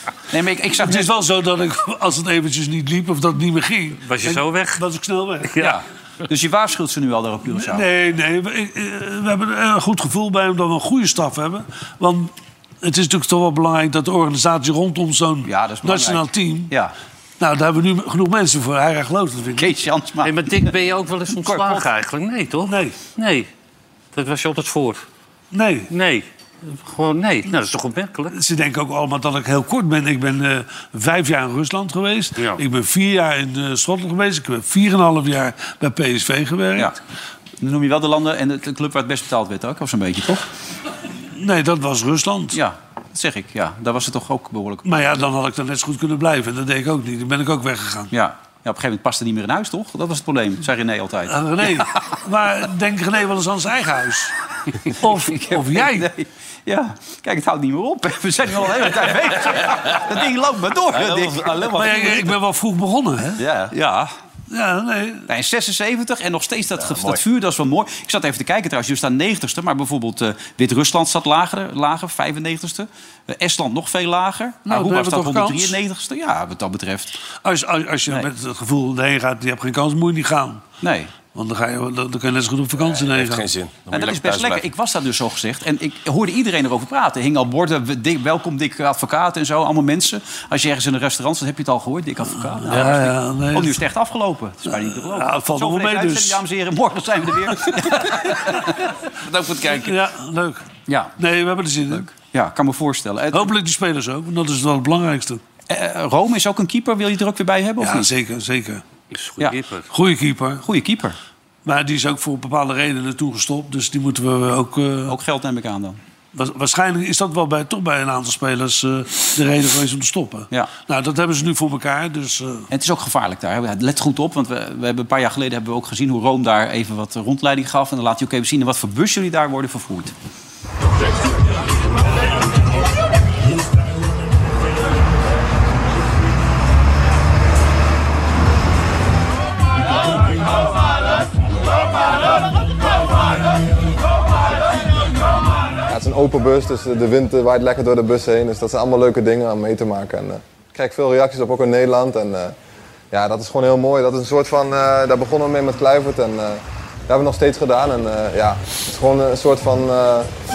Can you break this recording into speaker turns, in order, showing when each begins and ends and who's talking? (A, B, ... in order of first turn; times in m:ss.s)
0:00.3-0:01.1 A
0:00.8-0:05.5 B
0:04.1-0:04.8 C
0:05.5-0:05.8 C
0:05.6-0:07.9 A
0:07.5-0:12.3 B
0:12.8-0:16.7 B
0:15.5-0:16.9 A
0:17.4-0:19.7 B
0:19.6-0:20.7 A
0:20.2-0:23.5 C
0:21.4-0:21.8 A
0:22.7-0:23.0 B
0:24.1-0:25.0 C
0:25.5-0:25.9 B
0:25.9-0:28.3 C
0:28.3-0:36.9 B
0:37.6-0:40.5 A
0:41.4-0:42.6 B
0:42.5-0:44.8 A
0:44.8-0:48.1 B
0:48.1-0:51.9 A
0:51.3-0:54.3 B
0:55.0-0:56.1 B
0:55.2-1:01.7 A
1:00.9-1:02.3 D
1:01.8-1:03.4 B
1:03.4-1:03.7 D
1:03.7-1:04.1 A
1:04.5-1:05.3 B
1:05.3-1:17.2 A
1:06.8-1:07.2 D
1:14.7-1:15.8 B
1:17.4-1:20.6 B
1:20.8-1:21.1 A
1:21.3-1:23.5 B
1:22.8-1:24.7 D
1:23.9-1:38.7 A
1:32.6-1:33.8 B
1:34.9-1:36.4 B
1:39.2-1:40.0 D
1:39.7-1:40.7 B
1:40.9-1:41.1 A
1:41.2-1:42.1 B
1:41.9-1:43.5 A
1:43.3-1:45.4 B
1:45.7-1:48.1 A
1:47.8-1:48.8 B
1:49.1-1:49.9 C
1:49.9-1:50.6 B
1:50.6-1:51.2 A
1:51.6-1:55.2 B
1:55.1-1:56.0 A
1:56.4-2:02.7 B
2:02.7-2:10.1 A
2:25.9-2:32.6 E
2:33.1-2:40.3 E